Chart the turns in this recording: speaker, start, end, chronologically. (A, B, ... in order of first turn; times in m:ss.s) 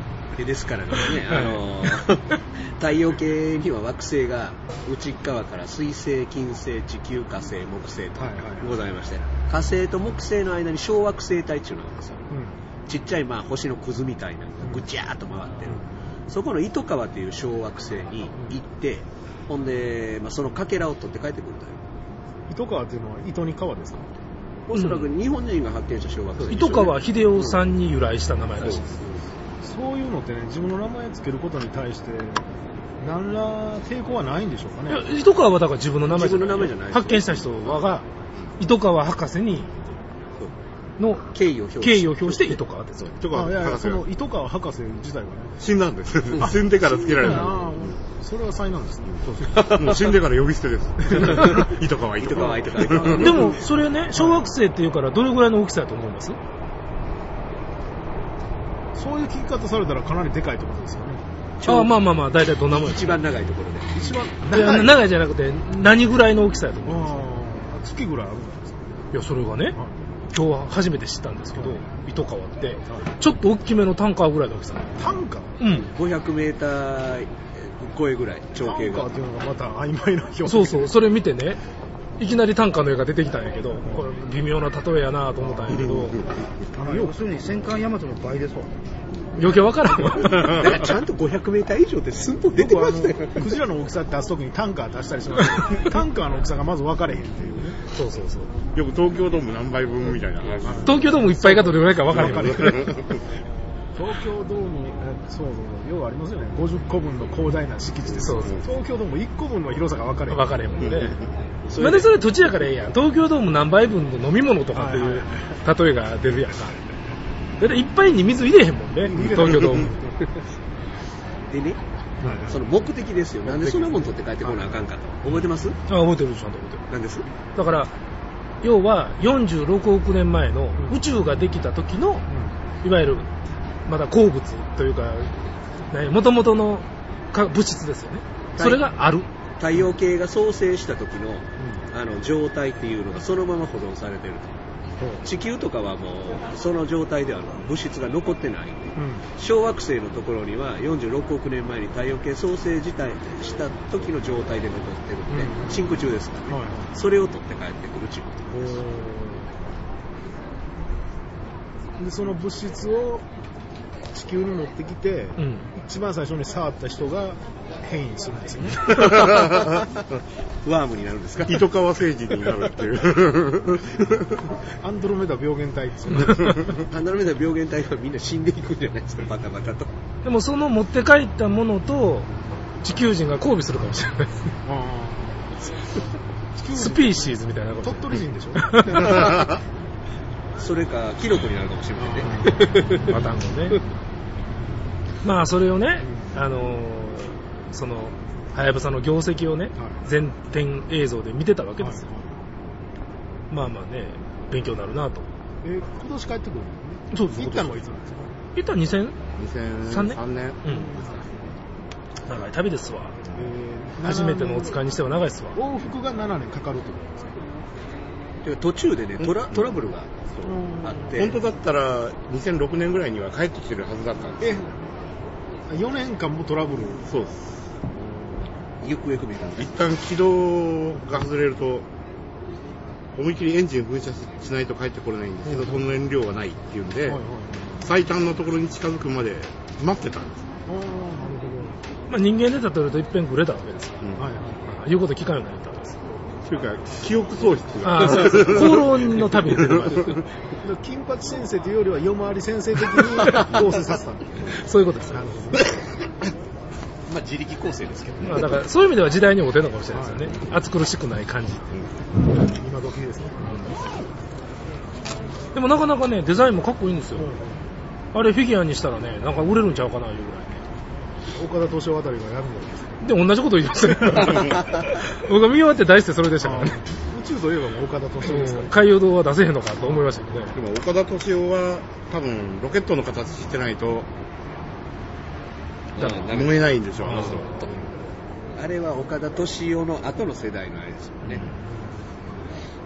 0:00.4-0:12.3 A
0:01.3-0:01.8 B
0:08.1-0:08.8 C
0:12.3-0:12.6 C
0:12.8-0:21.8 A
0:22.5-0:24.1 C
0:24.7-0:27.7 A
0:24.7-0:25.1 B
0:26.5-0:28.9 B
0:28.6-0:29.2 A
0:29.6-0:32.4 C
0:33.0-0:35.1 C
0:34.9-0:39.7 B
0:36.0-0:37.7 A
0:41.0-0:43.2 B
0:41.3-0:42.6 A
0:43.0-0:44.0 D
0:43.3-0:45.6 C
0:45.6-0:48.0 D
0:47.2-0:49.2 C
0:49.1-0:53.6 D
0:49.5-0:50.0 A
0:51.4-0:53.7 A
0:53.1-0:56.4 B
0:54.1-0:54.5 C
0:58.9-1:01.2 C
1:01.6-1:02.0 A
1:01.6-1:03.2 B
1:02.7-1:04.0 A
1:03.9-1:05.1 C
1:04.5-1:07.3 B
1:06.8-1:08.8 C
1:09.1-1:09.8 B
1:10.3-1:15.9 B
1:11.6-1:11.8 C
1:15.0-1:15.6 C
1:15.7-1:19.1 A
1:18.6-1:20.9 C
1:20.4-1:21.6 B
1:22.2-1:26.2 B
1:25.4-1:26.0 C
1:26.7-1:27.1 C
1:26.8-1:28.8 E
1:29.3-1:30.6 B
1:30.2-1:33.6 A
1:32.5-1:37.8 C
1:37.9-1:38.5 B
1:38.7-1:41.2 D
1:40.6-1:42.9 C
1:40.8-1:42.9 B
1:42.2-1:43.1 D
1:43.9-1:51.1 C
1:48.2-1:48.6 B
1:50.3-1:51.2 B
1:51.6-1:52.1 A
1:51.8-1:56.8 B
1:54.7-1:55.6 C
1:57.6-2:00.0 B
1:59.0-2:00.1 C
2:01.5-2:01.8 A
2:02.2-2:02.6 C
2:02.4-2:05.8 A
2:05.9-2:06.8 B
2:06.9-2:07.3 A
2:07.5-2:07.9 B
2:08.6-2:12.2 B
2:12.3-2:12.6 C
2:12.8-2:13.3 B
2:13.8-2:19.3 B
2:18.6-2:18.9 A
2:19.6-2:24.6 A
2:21.6-2:21.8 C
2:25.0-2:25.3 C
2:25.2-2:38.7 A
2:29.0-2:29.3 C
2:35.3-2:36.9 C
2:38.5-2:39.5 C
2:42.0-2:43.2 C
2:44.1-2:49.1 C
2:45.4-2:45.7 B
2:48.9-2:50.0 A
2:50.6-2:51.7 A
2:51.4-2:54.3 D
2:54.8-2:56.8 C
2:56.9-2:59.9 A
3:00.2-3:02.3 B
3:02.8-3:04.5 B
3:04.6-3:05.6 C
3:06.5-3:09.4 C
3:06.7-3:09.3 B
3:09.0-3:09.2 A
3:10.6-3:13.2 A
3:12.0-3:12.7 C
3:13.0-3:13.8 B
3:15.2-3:22.0 B
3:16.0-3:16.4 C
3:19.8-3:20.0 C
3:21.8-3:22.4 C
3:23.5-3:25.3 B
3:25.6-3:28.3 C
3:27.1-3:27.7 B
3:28.5-3:29.2 B
3:29.4-3:31.1 D
3:29.9-3:30.9 B
3:30.7-3:31.1 C
3:32.2-3:33.2 B
3:33.3-3:34.8 C
3:34.0-3:35.6 B
3:35.5-3:37.4 C
3:38.4-3:40.1 A
3:39.2-3:44.6 D
3:40.4-3:41.0 C
3:40.8-3:41.4 A
3:44.4-3:44.7 C
3:45.7-3:47.1 C
3:47.1-3:47.4 D
3:47.9-3:48.5 C
3:48.8-3:49.7 A
3:49.6-3:51.9 D
3:53.1-3:57.2 D
3:55.5-3:55.8 C
3:57.1-3:57.9 C
3:57.8-4:00.5 D
4:00.7-4:01.8 C
4:02.1-4:04.0 B
4:04.2-4:04.6 C
4:04.6-4:06.0 B
4:06.4-4:10.0 D
4:07.8-4:10.2 B
4:10.6-4:15.6 C
4:14.5-4:15.4 B
4:17.0-4:18.6 A
4:18.2-4:21.7 B
4:19.9-4:20.4 C
4:22.2-4:23.7 C
4:25.5-4:27.3 B
4:27.2-4:27.6 C
4:28.1-4:30.6 B
4:31.3-4:33.0 C
4:33.0-4:36.9 B
4:36.4-4:38.8 C
4:38.2-4:40.6 B
4:40.5-4:44.1 D
4:45.9-4:47.4 A
4:46.0-4:46.4 B
4:46.0-4:47.8 D
4:47.0-4:47.7 B
4:48.5-4:51.4 A
4:51.4-4:52.0 C